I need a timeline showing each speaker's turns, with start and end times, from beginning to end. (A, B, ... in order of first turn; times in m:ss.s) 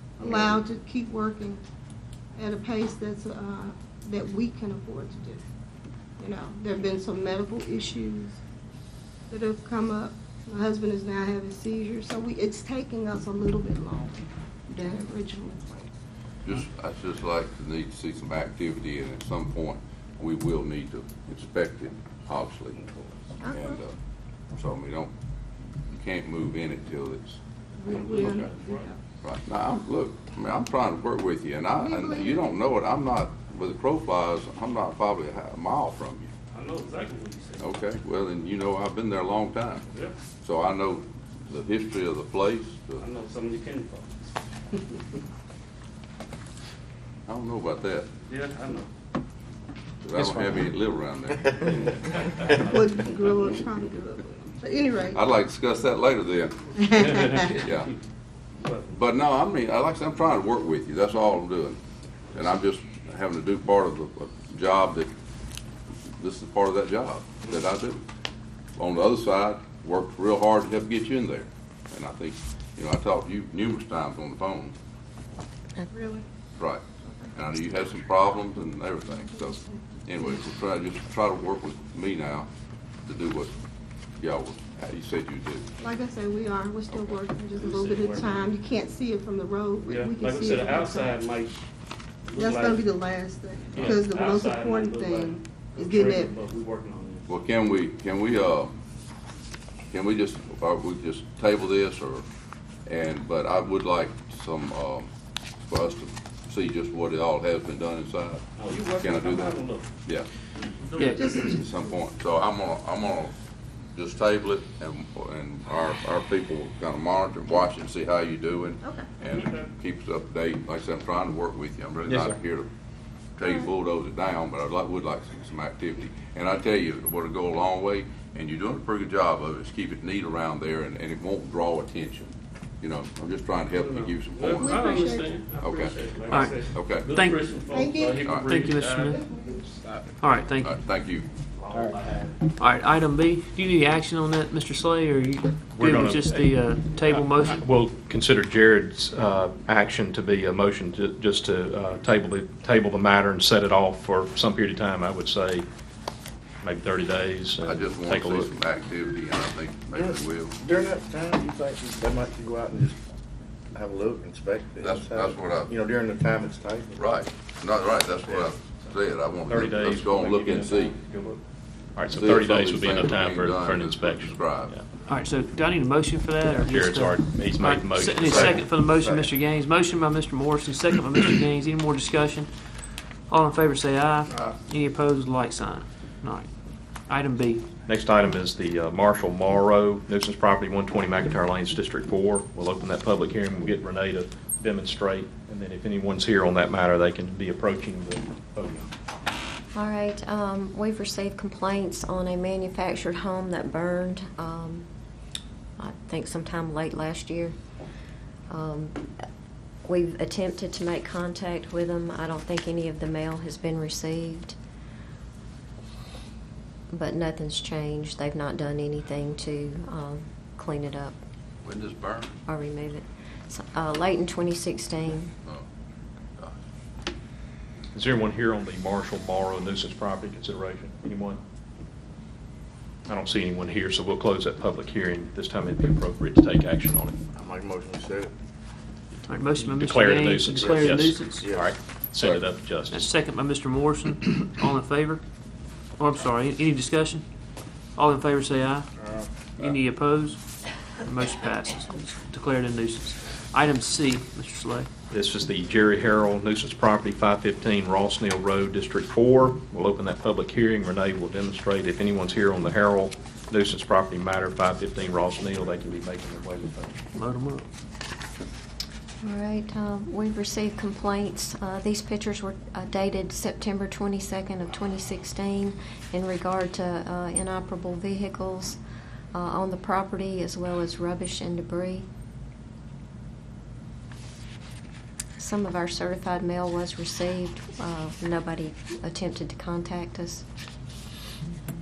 0:00.2-0:01.6 A
0:02.4-0:05.4 A
0:06.2-0:08.4 A
0:09.3-0:15.9 A
0:16.4-0:22.8 B
0:23.4-0:23.8 A
0:23.5-0:23.9 B
0:24.5-0:25.1 B
0:25.9-0:27.4 B
0:27.8-0:29.0 A
0:27.9-0:28.9 C
0:28.1-0:28.5 B
0:29.2-0:36.3 B
0:31.8-0:32.4 A
0:36.5-0:37.7 C
0:37.6-0:39.8 B
0:40.4-0:43.0 B
0:43.0-0:44.3 C
0:47.3-0:48.1 B
0:48.3-0:48.9 C
0:50.0-0:52.0 B
0:51.9-0:52.5 C
0:52.6-0:55.2 A
0:55.1-0:56.8 B
0:56.7-0:57.5 A
0:57.1-0:57.8 C
0:57.6-0:57.9 B
0:58.6-0:59.0 C
0:58.9-1:01.8 B
1:02.3-1:05.1 B
1:06.2-1:08.0 B
1:08.8-1:14.7 B
1:15.9-1:16.2 A
1:16.6-1:16.8 B
1:17.3-1:22.5 B
1:19.1-1:20.4 A
1:23.0-1:23.5 B
1:24.2-1:25.7 B
1:25.8-1:31.2 A
1:26.9-1:27.2 B
1:27.5-1:28.4 C
1:29.8-1:31.6 C
1:32.3-1:32.8 C
1:32.3-1:36.4 A
1:33.7-1:37.3 C
1:37.3-1:38.7 B
1:39.9-1:42.2 B
1:42.8-1:45.1 B
1:45.7-1:48.4 B
1:48.6-1:49.9 C
1:49.0-1:50.3 B
1:50.8-1:51.5 C
1:51.0-1:51.6 A
1:51.4-1:53.3 B
1:53.9-2:02.7 B
1:59.3-1:59.7 C
2:02.1-2:02.4 D
2:03.4-2:14.9 B
2:13.7-2:19.1 C
2:14.6-2:15.5 A
2:15.5-2:17.1 B
2:16.3-2:17.4 E
2:17.7-2:18.3 A
2:18.2-2:18.5 B
2:18.4-2:19.2 E
2:19.0-2:19.7 A
2:20.2-2:20.7 E
2:20.6-2:21.3 B
2:21.6-2:22.3 C
2:22.6-2:27.6 E
2:25.7-2:26.5 D
2:27.5-2:35.7 D
2:36.6-2:38.5 D
2:37.6-2:40.5 B
2:39.9-2:43.0 F
2:43.7-2:47.3 F
2:44.8-2:45.7 B
2:47.0-2:50.9 B
2:48.1-2:48.5 F
2:49.4-2:51.4 D
2:52.0-2:54.8 D
2:52.1-2:54.7 B
2:55.1-3:02.5 E
2:56.5-2:58.6 D
2:58.2-2:59.4 F
3:03.3-3:06.5 E
3:07.1-3:07.6 E
3:07.9-3:18.9 D
3:19.7-3:24.8 G
3:25.8-3:27.6 G
3:28.5-3:29.0 G
3:29.8-3:34.6 G
3:36.9-3:41.2 G
3:41.6-3:42.4 B
3:42.4-3:45.3 G
3:47.9-3:51.4 D
3:53.1-3:57.2 D
3:57.3-3:58.3 F
3:59.2-4:01.5 E
3:59.6-4:03.1 D
4:00.5-4:01.7 F
4:02.9-4:05.2 E
4:06.0-4:07.2 E
4:08.0-4:08.9 E
4:09.0-4:09.7 F
4:09.6-4:10.4 E
4:11.0-4:14.9 E
4:15.1-4:27.0 D
4:27.1-4:27.6 E
4:29.2-4:38.8 G
4:39.3-4:42.1 G
4:45.4-4:50.4 G